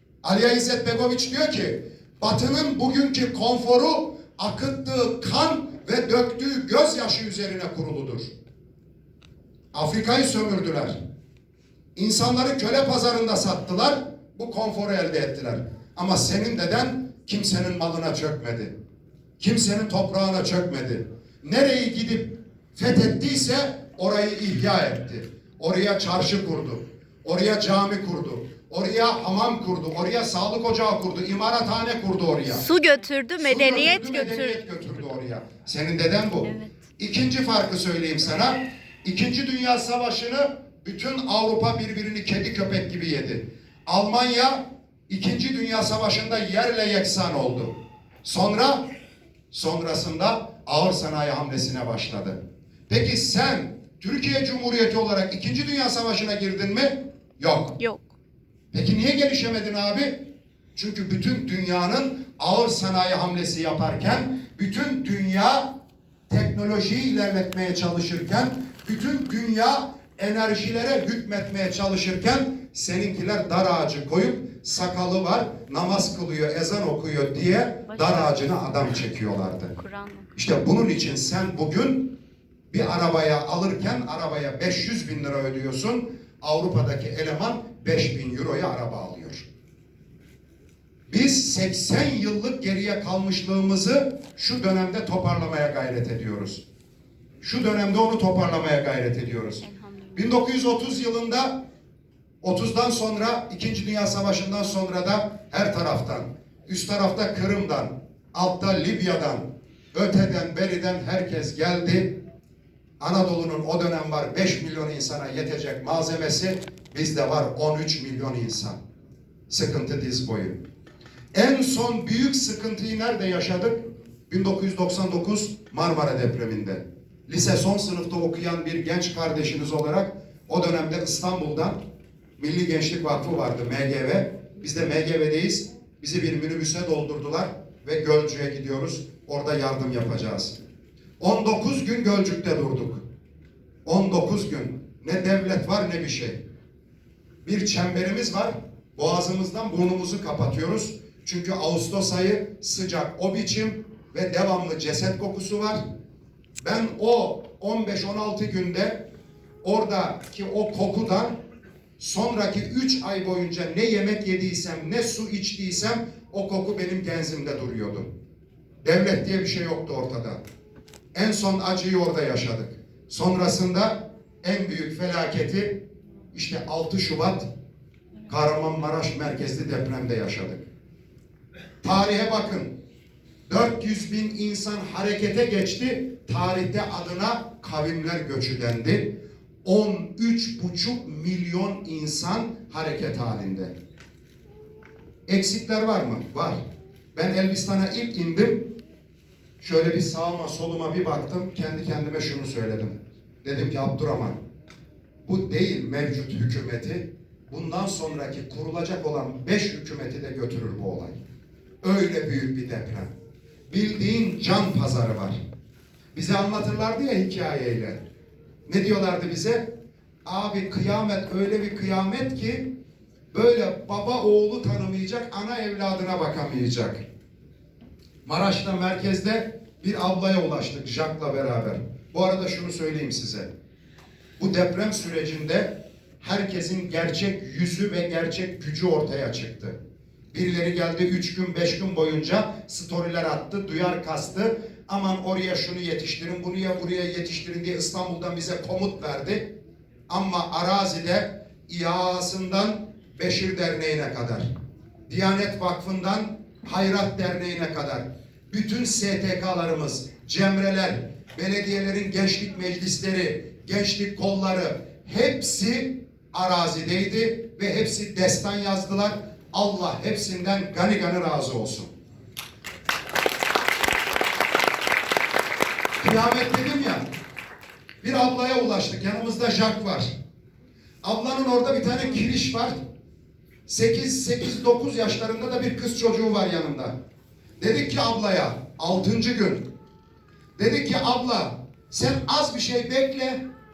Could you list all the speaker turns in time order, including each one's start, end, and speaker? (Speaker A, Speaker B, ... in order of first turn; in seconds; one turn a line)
Speaker A: 0.2-8.3
Speaker A: 9.7-10.9
Speaker A: 11.9-18.7
Speaker A: 19.4-32.7
Speaker B: 32.5-34.6
Speaker A: 33.4-47.7
Speaker B: 36.4-36.8
Speaker A: 48.2-48.8
Speaker A: 49.5-52.4
Speaker A: 52.9-57.8
Speaker B: 57.8-58.1
Speaker A: 58.7-60.2
Speaker A: 60.7-65.7
Speaker A: 66.3-79.7
Speaker B: 77.9-78.4
Speaker B: 79.7-80.3
Speaker A: 80.3-82.2
Speaker A: 82.7-89.5
Speaker A: 91.1-96.6
Speaker A: 97.4-101.6
Speaker B: 99.6-100.3
Speaker A: 102.4-112.2
Speaker A: 113.0-118.8
Speaker A: 119.5-120.6
Speaker A: 121.3-131.8
Speaker A: 132.4-140.6
Speaker A: 141.2-143.0
Speaker A: 143.8-146.4
Speaker A: 147.4-155.8
Speaker A: 156.6-159.0
Speaker A: 159.6-161.4
Speaker A: 162.0-168.1
Speaker A: 168.8-170.4
Speaker A: 171.1-175.8
Speaker A: 176.3-177.5
Speaker A: 178.3-180.7
Speaker A: 181.8-182.7
Speaker A: 183.5-193.7
Speaker A: 195.3-196.6
Speaker A: 197.1-198.7
Speaker A: 199.6-204.4
Speaker A: 205.2-211.2
Speaker A: 211.8-213.1
Speaker A: 213.7-215.4
Speaker A: 216.1-218.0
Speaker A: 218.7-219.7
Speaker A: 220.2-222.7
Speaker A: 223.3-227.0
Speaker A: 228.2-233.5
Speaker A: 234.4-239.8
Speaker A: 240.3-249.5
Speaker A: 250.1-254.5
Speaker A: 255.1-271.9
Speaker A: 276.0-277.1
Speaker A: 278.0-280.1
Speaker A: 281.0-282.8
Speaker A: 283.7-286.9
Speaker A: 287.6-289.7
Speaker A: 290.6-293.4